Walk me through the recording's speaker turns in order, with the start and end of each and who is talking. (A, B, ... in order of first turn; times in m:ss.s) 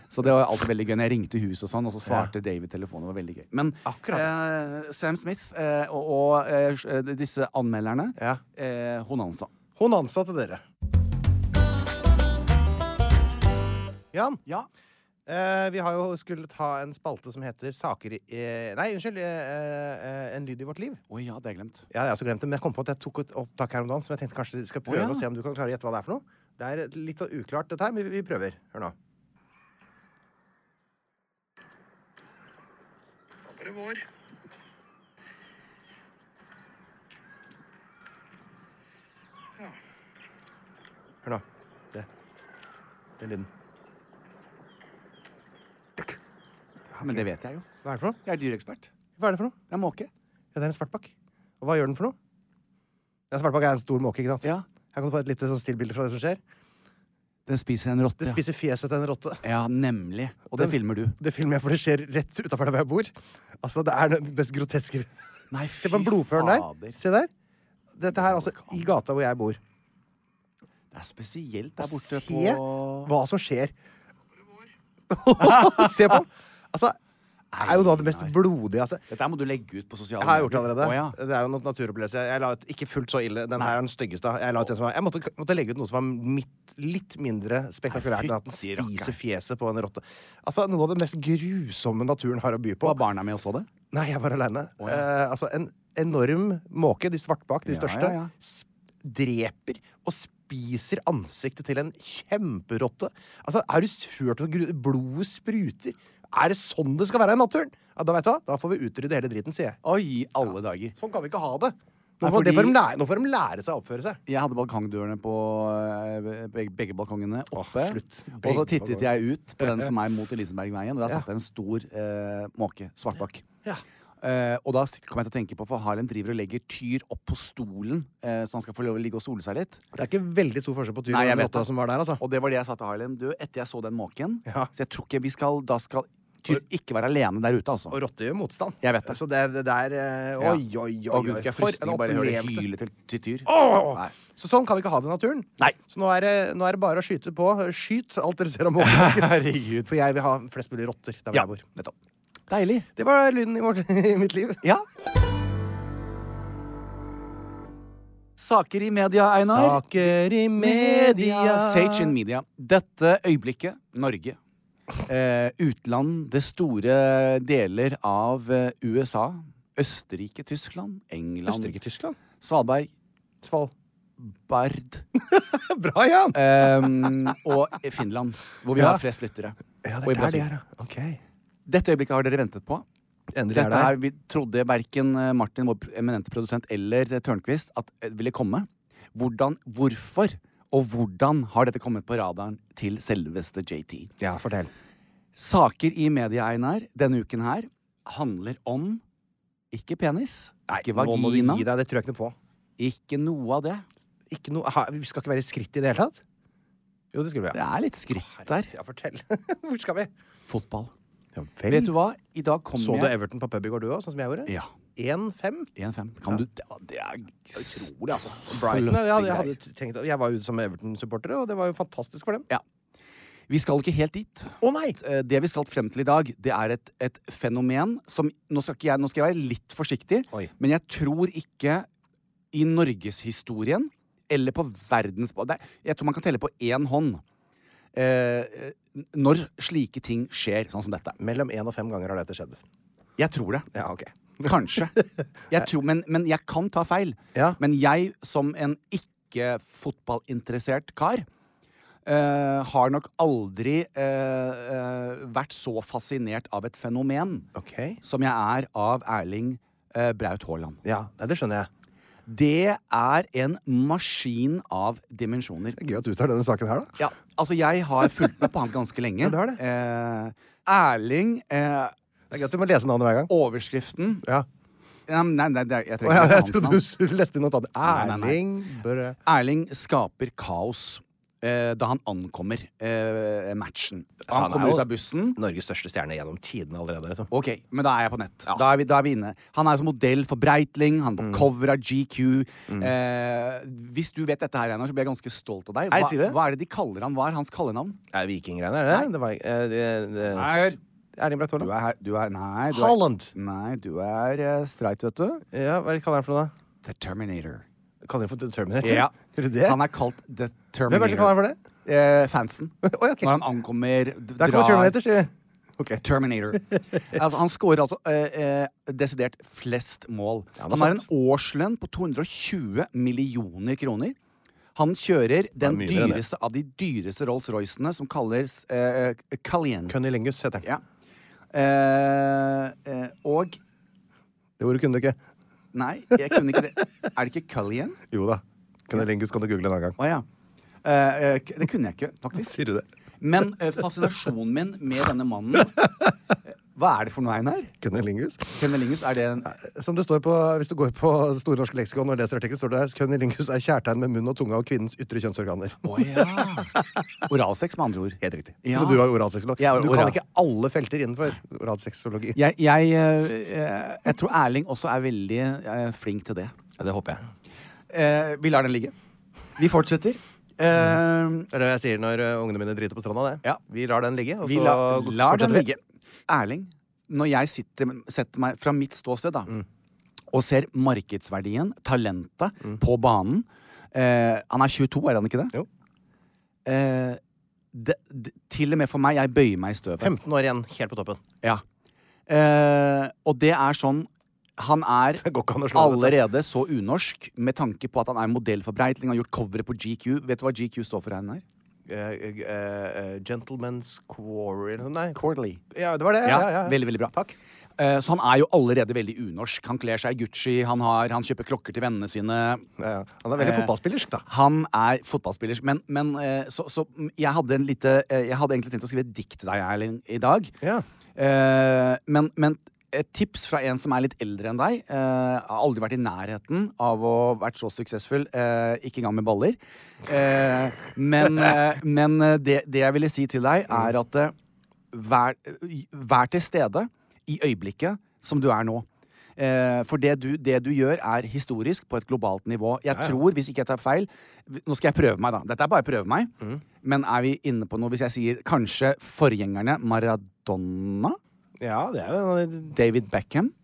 0:00.1-0:09.5 A
0:02.0-0:02.3 B
0:03.8-0:04.3 B
0:08.2-0:08.4 B
0:09.8-0:10.6 B
0:14.1-0:14.4 B
0:15.2-0:21.0 B
0:21.1-0:21.8 A
0:21.9-0:28.9 B
0:24.9-0:25.2 A
0:33.7-0:34.0 B
0:41.2-0:42.1 B
0:43.2-0:43.5 B
0:47.0-0:47.2 B
0:47.0-0:47.6 A
0:47.8-0:48.2 B
0:48.2-0:48.9 A
0:49.2-0:49.6 B
0:49.7-0:50.1 A
0:50.5-0:52.2 B
0:53.3-0:56.4 B
0:57.5-0:58.4 A
0:58.2-0:59.4 B
0:59.4-1:01.2 A
1:00.6-1:05.1 B
1:05.5-1:07.0 A
1:05.8-1:07.3 B
1:08.0-1:09.6 B
1:08.1-1:08.9 A
1:10.9-1:13.1 A
1:11.8-1:13.7 B
1:15.1-1:17.0 B
1:15.4-1:16.2 A
1:17.5-1:18.3 A
1:17.6-1:19.0 B
1:19.1-1:21.2 A
1:20.2-1:33.0 B
1:27.9-1:29.1 A
1:32.8-1:33.7 A
1:33.9-1:49.8 B
1:37.7-1:38.3 A
1:49.8-1:50.9 A
1:51.0-1:54.2 B
1:52.2-1:52.8 A
1:54.3-2:03.4 A
1:57.5-1:59.1 B
1:59.6-1:59.9 B
2:04.2-2:09.8 A
2:09.9-2:12.2 B
2:11.1-2:11.7 A
2:12.2-2:18.0 A
2:17.9-2:22.7 B
2:18.8-2:19.2 A
2:20.4-2:24.1 A
2:23.5-2:31.7 B
2:28.8-2:29.9 A
2:31.3-2:31.9 A
2:32.5-2:32.9 A
2:33.0-2:34.6 B
2:38.4-2:39.9 A
2:39.4-2:42.1 B
2:40.6-2:44.4 A
2:45.0-2:51.8 A
2:51.4-2:52.2 B
2:52.4-2:52.9 A
2:53.4-2:53.7 B
2:54.2-2:55.0 A
2:55.2-2:57.1 B
2:56.3-3:00.5 A
2:58.7-2:59.0 B
2:59.8-3:01.2 B
3:01.6-3:02.8 A
3:03.3-3:04.0 B
3:03.5-3:14.1 A
3:14.2-3:14.7 B
3:15.3-3:19.0 A
3:19.7-3:21.7 A
3:20.7-3:22.3 B
3:22.8-3:23.8 A
3:24.3-3:26.2 B
3:27.1-3:27.6 B
3:27.5-3:28.7 A
3:28.1-3:30.1 B
3:30.5-3:30.9 A
3:31.3-3:31.9 B
3:31.7-3:33.1 A
3:32.7-3:35.7 B
3:35.8-3:39.5 A
3:37.5-3:42.5 B
3:43.5-3:51.8 A
3:44.6-3:45.0 B
3:52.5-3:57.2 A
3:57.9-4:01.2 A
4:01.2-4:02.6 B
4:03.2-4:03.7 A
4:03.7-4:04.9 B
4:04.4-4:11.2 A
4:12.0-4:17.5 A
4:17.5-4:18.0 B
4:18.0-4:20.8 A
4:20.8-4:21.7 B
4:22.3-4:25.8 A
4:25.8-4:27.0 B
4:27.0-4:32.4 A
4:29.2-4:29.6 B
4:32.3-4:33.3 B
4:33.3-4:34.3 A
4:35.1-4:36.8 A
4:36.0-4:39.2 B
4:37.8-4:38.4 A
4:39.2-4:45.4 A
4:44.3-4:47.3 B
4:47.3-4:58.0 A
4:51.2-4:51.5 B
4:55.9-4:56.4 B
4:58.1-5:00.5 B
5:00.3-5:00.8 A
5:01.2-5:01.7 B
5:01.6-5:05.4 A
5:02.7-5:03.3 B
5:05.5-5:06.5 B
5:06.8-5:07.6 A
5:08.0-5:09.8 B
5:08.8-5:15.0 A
5:10.9-5:11.6 B
5:12.8-5:13.3 B
5:14.4-5:16.0 B
5:16.0-5:24.1 A
5:20.6-5:21.0 B
5:24.8-5:30.0 A
5:25.6-5:26.2 B
5:29.9-5:30.7 B
5:31.5-5:33.6 A
5:34.6-5:35.2 B
5:35.7-5:38.0 A
5:38.1-5:40.0 B
5:40.0-5:40.2 A
5:40.8-5:42.6 A
5:42.4-5:42.8 B
5:43.2-5:45.9 A
5:46.7-5:47.7 A
5:47.8-5:48.7 B
5:48.6-5:49.5 A
5:49.4-5:57.0 B
5:55.8-5:56.7 A
5:57.2-6:00.2 A
5:58.2-6:02.4 B
6:02.3-6:06.5 A
6:06.8-6:07.3 B
6:07.9-6:08.9 A
6:09.6-6:11.5 A
6:11.5-6:15.7 B
6:14.4-6:19.5 A
6:20.3-6:25.5 A
6:26.6-6:27.2 A
6:27.7-6:30.1 A
6:30.0-6:31.2 B
6:32.3-6:41.4 A
6:35.2-6:36.2 B
6:41.9-6:45.2 B
6:45.1-6:45.6 A
6:45.7-6:47.3 B
6:46.2-6:47.1 A
6:47.8-6:52.6 A
6:52.8-6:54.2 B
6:53.4-6:53.7 A
6:54.3-7:00.5 A
7:01.2-7:14.3 A
7:14.9-7:18.8 A
7:19.4-7:26.3 A
7:22.9-7:23.2 B
7:26.8-7:31.2 A
7:31.6-7:32.8 B
7:32.7-7:33.5 A